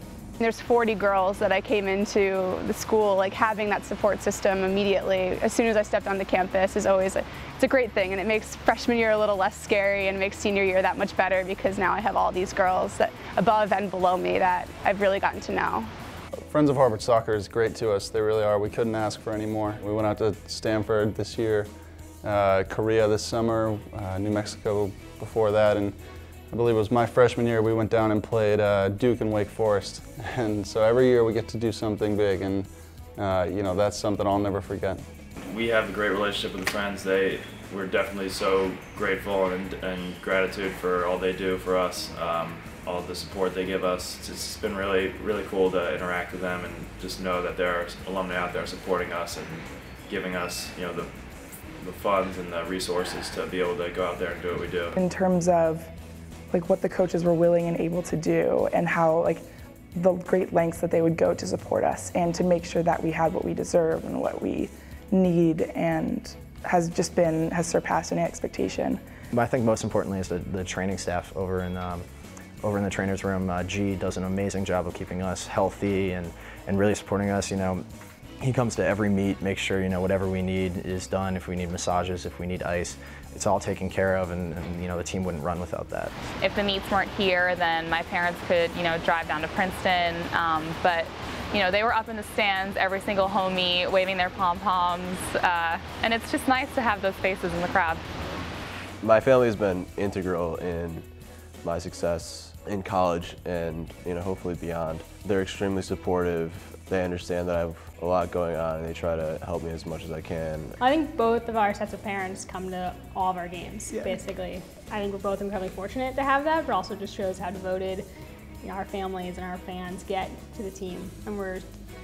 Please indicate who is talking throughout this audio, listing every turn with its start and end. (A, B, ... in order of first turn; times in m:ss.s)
0:00.4-0:15.9 A
0:16.5-0:35.0 B
0:35.4-0:54.9 C
0:55.0-0:55.9 D
0:56.5-1:09.0 D
1:09.3-1:12.0 E
1:12.6-1:17.8 E
1:18.4-1:26.1 E
1:26.4-1:38.0 F
1:39.0-1:50.8 G
1:50.8-1:58.1 H
1:58.6-2:01.6 H